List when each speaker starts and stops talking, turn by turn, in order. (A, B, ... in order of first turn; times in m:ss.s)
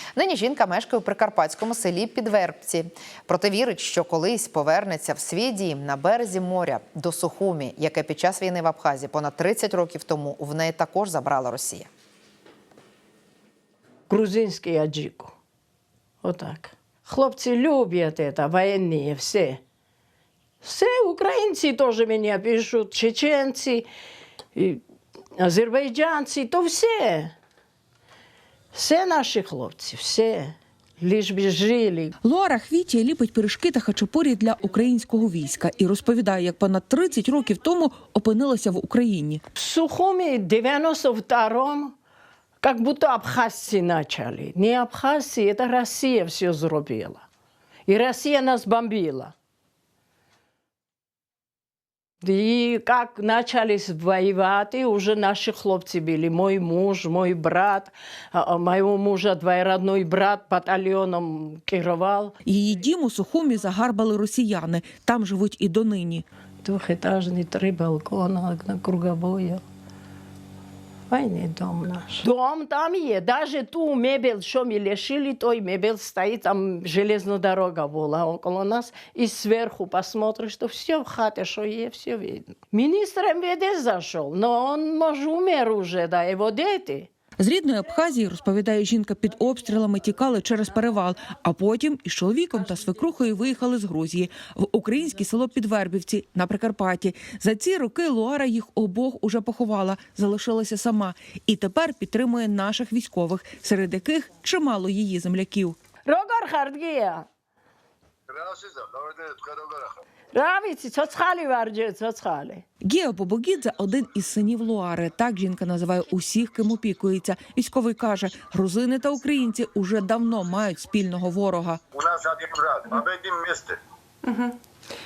0:00.1-0:11.9 A
0:14.1-0:15.3 B
0:16.2-0:19.6 B
0:20.6-0:23.9 B
0:24.5-0:24.8 B
0:25.4-0:27.3 B
0:28.7-0:32.1 B
0:32.2-0:39.4 C
0:39.6-0:41.9 B
0:42.6-0:47.2 B
0:47.9-0:49.3 B
0:52.2-1:02.3 B
1:02.4-1:06.2 C
1:06.6-1:09.6 B
1:11.1-1:27.1 B
1:27.4-1:45.8 C
1:46.0-1:47.2 B
1:48.3-1:49.9 D
1:50.3-1:52.6 B
1:52.8-2:01.8 C
2:01.9-2:03.8 D